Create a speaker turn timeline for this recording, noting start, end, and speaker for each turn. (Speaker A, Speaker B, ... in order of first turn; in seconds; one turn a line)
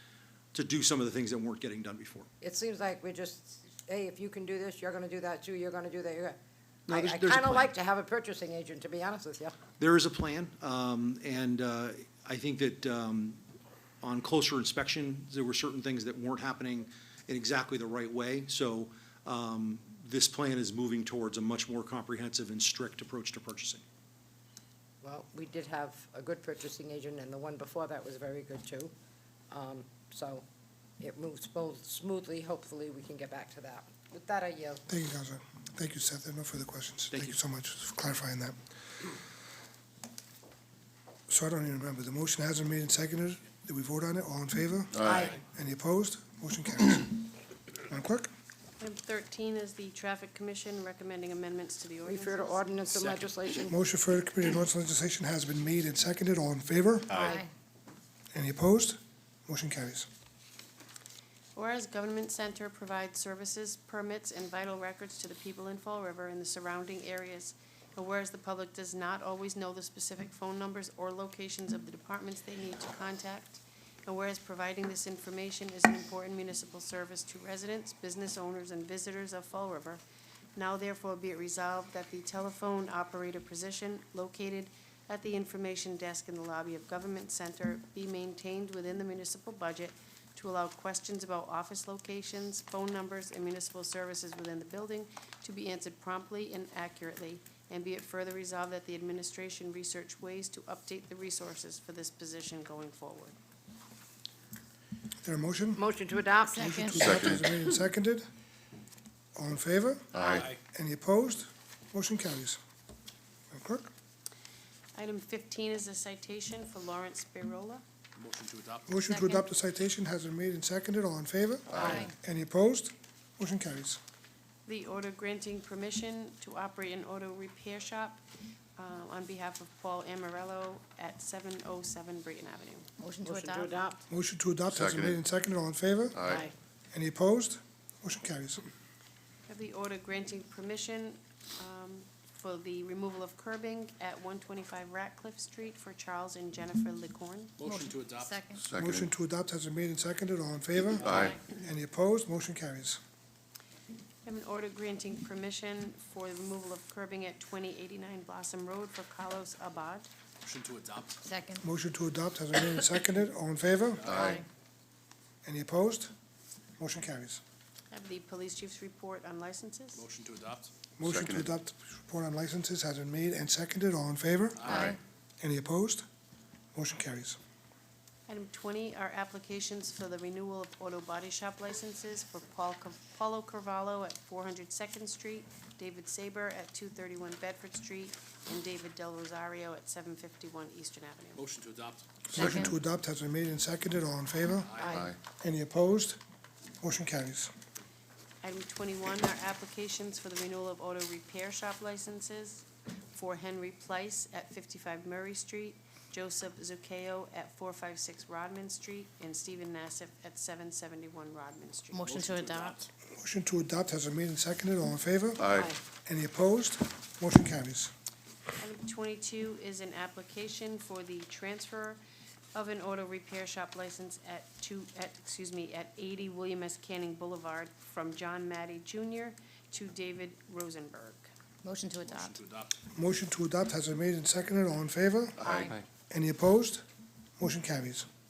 Speaker A: 0.5-2.3
Speaker B: 2.4-9.5
Speaker A: 6.9-7.7
Speaker A: 9.8-13.4
Speaker A: 14.0-23.8
Speaker B: 25.0-28.9
Speaker B: 29.5-30.4
Speaker B: 31.0-34.8
Speaker C: 34.9-38.6
Speaker C: 41.3-47.3
Speaker B: 45.0-45.4
Speaker C: 47.9-48.3
Speaker D: 48.8-52.6
Speaker B: 52.0-53.7
Speaker C: 53.7-57.4
Speaker B: 57.1-57.4
Speaker C: 58.3-60.1
Speaker D: 61.5-80.0
Speaker D: 80.5-103.3
Speaker C: 105.2-105.8
Speaker B: 105.8-106.9
Speaker E: 106.4-107.2
Speaker C: 106.5-108.3
Speaker F: 107.0-107.4
Speaker C: 109.3-112.6
Speaker F: 110.1-110.5
Speaker G: 110.3-110.6
Speaker C: 113.5-113.9
Speaker D: 114.9-117.8
Speaker G: 118.2-118.9
Speaker C: 118.9-124.0
Speaker E: 119.0-119.4
Speaker E: 121.8-122.1
Speaker D: 124.7-128.2
Speaker D: 128.8-133.4
Speaker B: 133.0-134.0
Speaker E: 133.1-133.7
Speaker C: 134.1-138.6
Speaker F: 134.7-135.2
Speaker F: 136.1-136.5
Speaker D: 139.5-147.6
Speaker G: 147.6-148.4
Speaker E: 147.6-148.6
Speaker F: 148.6-149.1
Speaker C: 148.7-153.0
Speaker F: 150.9-151.4
Speaker D: 154.2-160.1
Speaker G: 160.4-161.2
Speaker E: 161.2-161.6
Speaker C: 161.6-164.4
Speaker F: 164.0-164.4
Speaker C: 165.4-166.1
Speaker C: 166.8-167.4
Speaker D: 167.9-170.0
Speaker G: 169.9-170.7
Speaker C: 171.0-174.8
Speaker F: 171.0-171.5
Speaker G: 174.6-174.9
Speaker E: 174.6-175.0
Speaker F: 174.7-175.0
Speaker C: 175.4-176.0
Speaker C: 176.7-177.4
Speaker D: 178.3-191.4
Speaker G: 191.3-192.1
Speaker C: 192.3-196.2
Speaker E: 192.4-192.7
Speaker F: 192.4-192.7
Speaker G: 194.6-195.1
Speaker C: 196.8-197.5
Speaker D: 198.4-212.1
Speaker E: 211.9-212.8
Speaker G: 212.0-212.9
Speaker C: 213.1-215.5
Speaker F: 215.4-215.7
Speaker C: 216.0-217.9
Speaker D: 218.6-222.0
Speaker D: 222.5-231.3
Speaker E: 231.6-232.4
Speaker G: 232.0-232.8
Speaker C: 232.9-236.8
Speaker F: 235.4-235.7
Speaker B: 235.4-235.7
Speaker C: 237.4-238.1